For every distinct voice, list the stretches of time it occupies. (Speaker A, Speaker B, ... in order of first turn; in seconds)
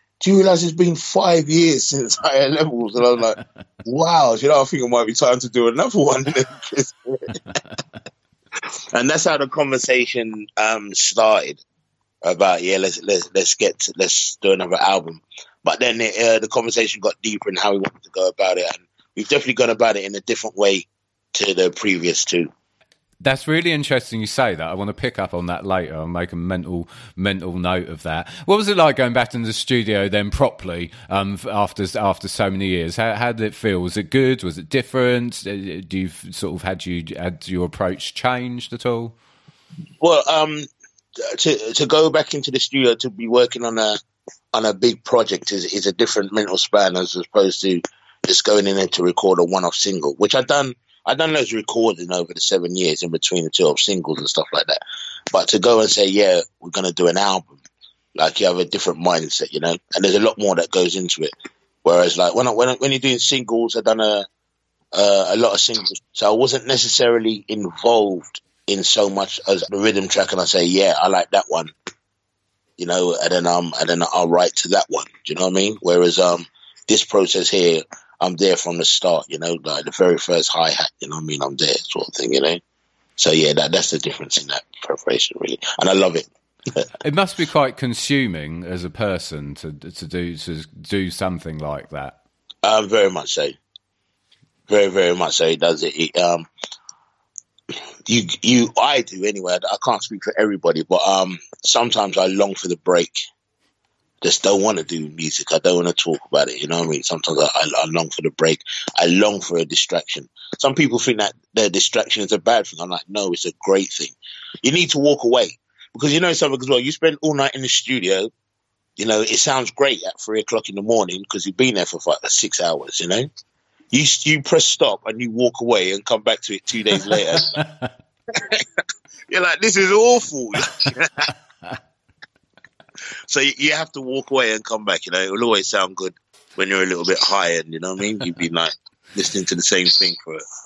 Speaker A: 0.2-7.4, 8.6-11.6, 12.2-22.5, 40.0-40.7, 41.2-44.0, 44.5-57.6, 58.1-61.3, 61.8-64.3, 64.9-71.7, 72.8-82.6, 83.2-86.8, 92.6-93.6, 94.7-96.5, 98.0-103.2, 104.2-118.3, 119.0-123.3, 123.9-127.5, 128.3-128.7, 129.3-131.3, 133.3-140.4
Speaker B: 23.2-39.1, 87.0-92.2, 127.1-127.9